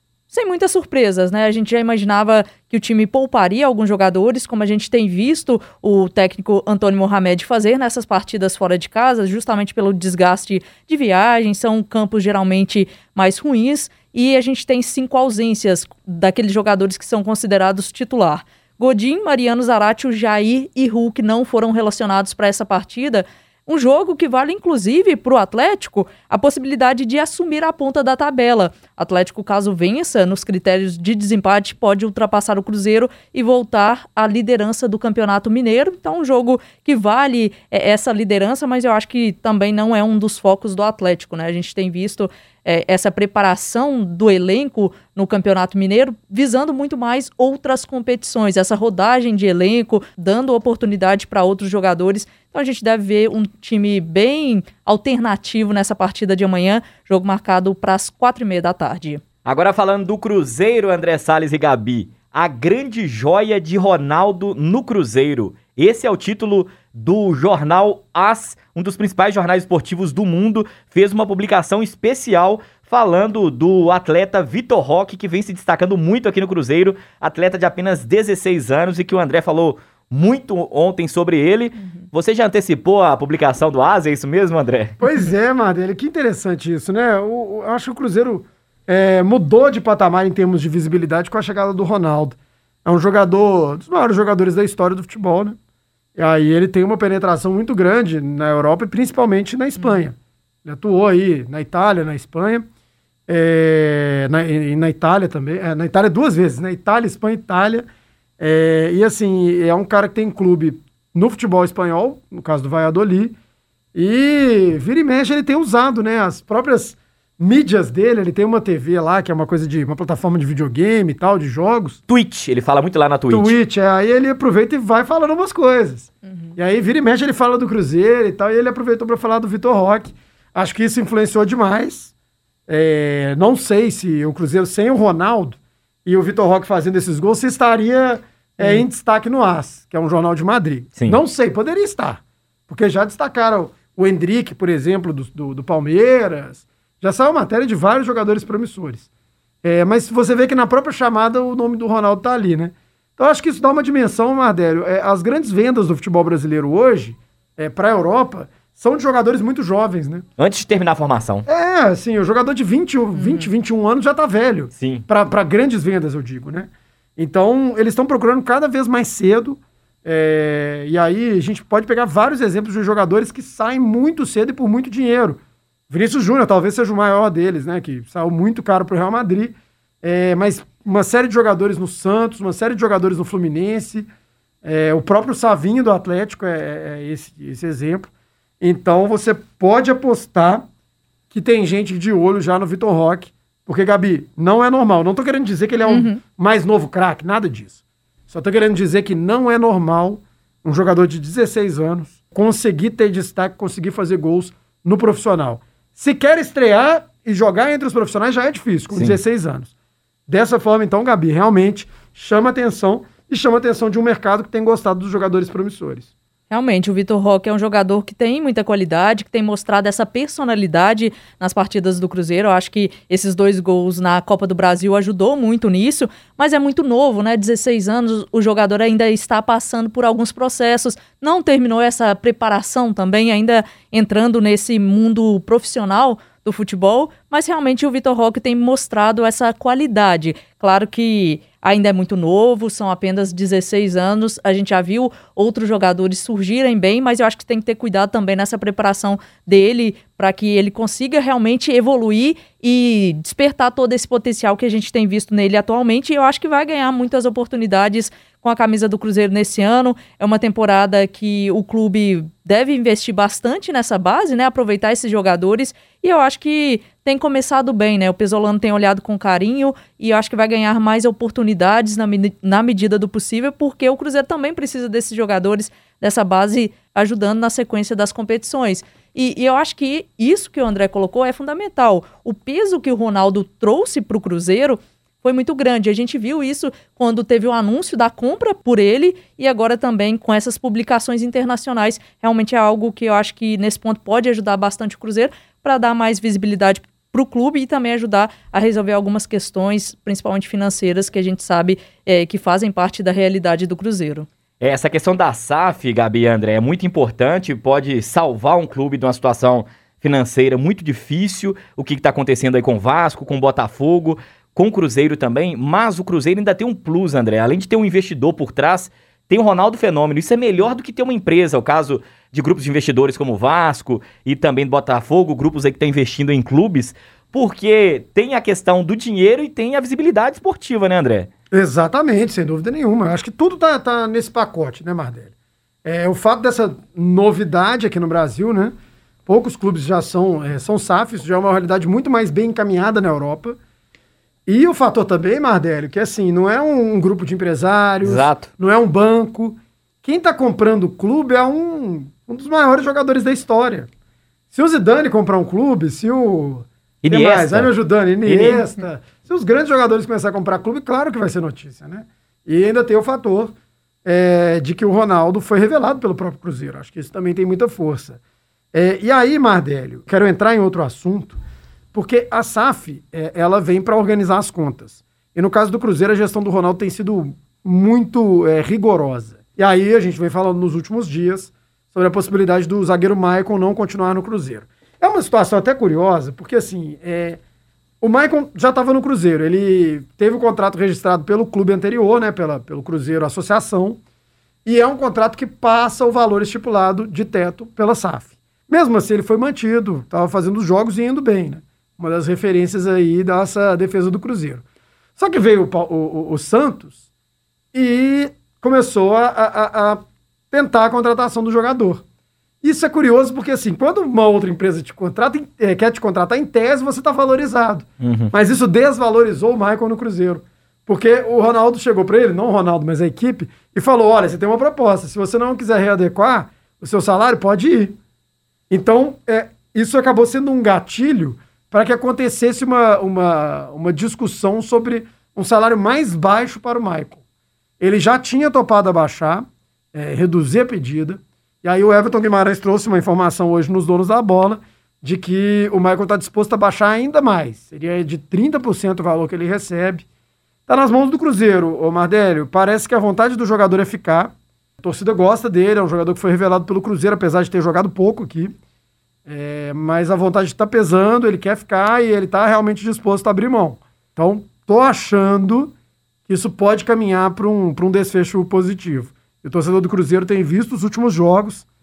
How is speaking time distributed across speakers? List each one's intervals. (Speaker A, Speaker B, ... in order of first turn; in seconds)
Speaker A: 0.3-59.2, 99.8-100.0, 126.2-126.5, 163.2-163.5, 195.9-196.2, 216.5-304.3
Speaker B: 59.5-85.0, 122.1-123.5, 160.4-161.5, 164.7-165.1, 208.9-209.2, 304.6-331.3, 348.0-348.5, 357.0-358.6, 418.0-418.3
Speaker C: 85.0-95.6, 96.2-102.7, 103.3-107.8, 108.4-113.3, 114.0-122.0, 123.3-132.1, 132.7-149.1, 149.6-160.2, 161.5-184.1, 184.6-188.1, 188.6-190.7, 191.3-209.7, 210.3-216.1, 331.5-335.3, 335.9-338.7, 339.2-343.6, 344.5-353.9, 354.5-363.5, 364.1-368.2, 368.7-371.4, 371.9-387.4, 388.0-394.0, 394.6-404.6, 405.2-406.9, 407.7-412.0, 412.6-428.0, 428.7-437.2, 437.8-450.1, 450.7-458.5, 459.2-465.7, 466.3-471.6